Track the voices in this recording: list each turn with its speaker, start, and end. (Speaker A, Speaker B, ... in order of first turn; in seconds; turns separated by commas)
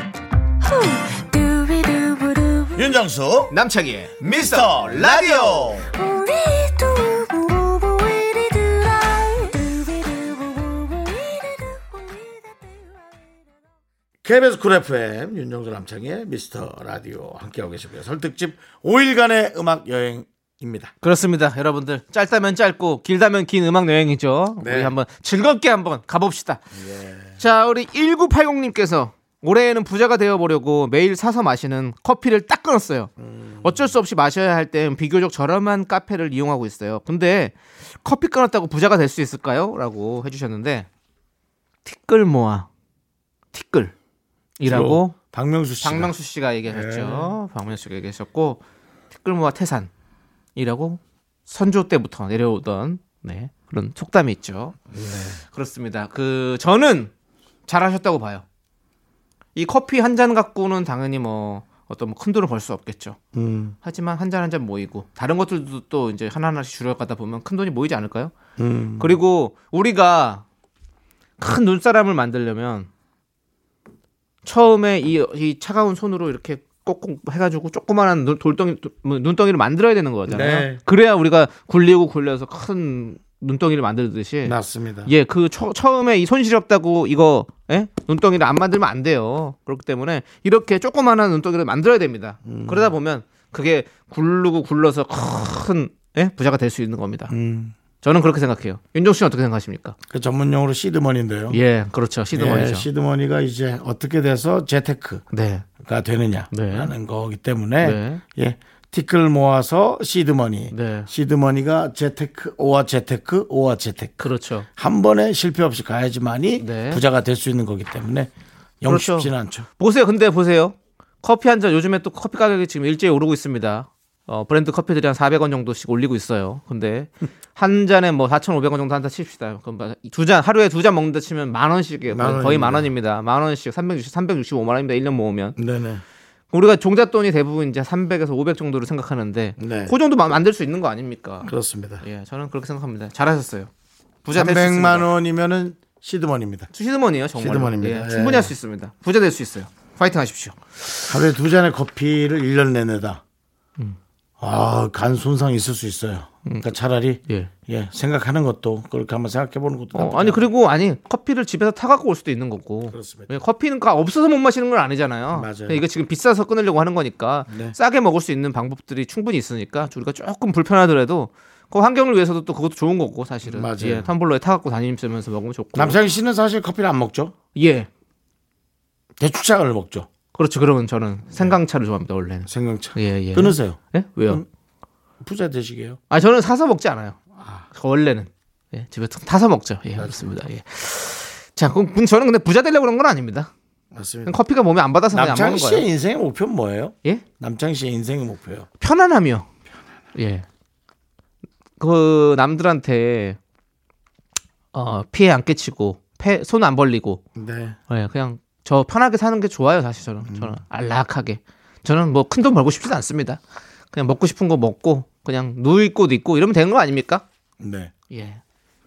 Speaker A: 0.6-2.9, Speaker B: 2.8-3.5, Speaker C: 3.5-5.7, Speaker B: 4.2-5.9, Speaker A: 5.9-12.9, Speaker B: 14.2-20.9, Speaker C: 21.0-26.6, Speaker B: 24.6-24.9, Speaker B: 26.7-27.4, Speaker C: 27.4-33.1, Speaker B: 33.2-33.9, Speaker C: 33.6-40.9, Speaker C: 41.8-42.7, Speaker C: 43.5-43.9, Speaker C: 44.6-45.1, Speaker B: 44.6-46.1, Speaker C: 45.8-48.6, Speaker B: 46.7-47.4, Speaker C: 49.1-49.9, Speaker C: 50.5-54.8, Speaker B: 54.9-55.4, Speaker C: 55.5-57.1, Speaker C: 57.7-58.4, Speaker C: 59.5-63.2, Speaker B: 63.3-63.8, Speaker C: 63.8-68.3, Speaker B: 68.6-69.2, Speaker C: 69.0-70.4, Speaker C: 71.4-72.9, Speaker C: 74.4-97.3, Speaker B: 80.3-80.8, Speaker B: 84.4-85.1, Speaker B: 92.4-92.9, Speaker B: 97.3-97.7, Speaker C: 98.0-100.0, Speaker B: 100.1-101.6, Speaker C: 101.5-102.8, Speaker B: 102.3-105.2, Speaker C: 105.3-105.7, Speaker B: 105.8-118.3, Speaker C: 106.5-106.9, Speaker C: 107.8-108.2, Speaker C: 110.7-111.1, Speaker C: 114.2-114.7, Speaker C: 116.6-117.0, Speaker B: 118.8-119.7, Speaker C: 118.8-135.6, Speaker B: 132.1-132.9, Speaker B: 135.6-136.0, Speaker C: 136.5-141.5, Speaker B: 139.6-139.9, Speaker B: 141.4-142.0, Speaker C: 142.0-143.7, Speaker C: 144.2-145.1, Speaker B: 144.3-146.7, Speaker C: 146.7-150.6, Speaker B: 147.3-148.5, Speaker B: 151.1-153.2, Speaker B: 154.4-160.4, Speaker C: 159.9-176.0, Speaker B: 162.9-163.3, Speaker B: 165.3-165.8, Speaker B: 167.5-167.8, Speaker B: 173.4-174.1, Speaker B: 175.7-177.3, Speaker C: 177.5-177.9, Speaker B: 179.2-180.1, Speaker C: 180.3-184.4, Speaker B: 182.5-184.4, Speaker B: 185.2-186.0, Speaker C: 186.1-187.2, Speaker B: 187.3-187.7, Speaker C: 187.7-193.5, Speaker B: 190.0-190.3, Speaker B: 193.9-194.3, Speaker C: 194.2-195.8, Speaker B: 195.1-198.7, Speaker C: 198.8-199.5, Speaker C: 200.1-200.4, Speaker C: 201.8-203.4, Speaker C: 204.7-207.2, Speaker B: 207.3-207.8, Speaker C: 207.9-213.4, Speaker B: 210.2-210.6, Speaker C: 213.9-217.2, Speaker B: 217.6-217.9, Speaker C: 218.1-218.4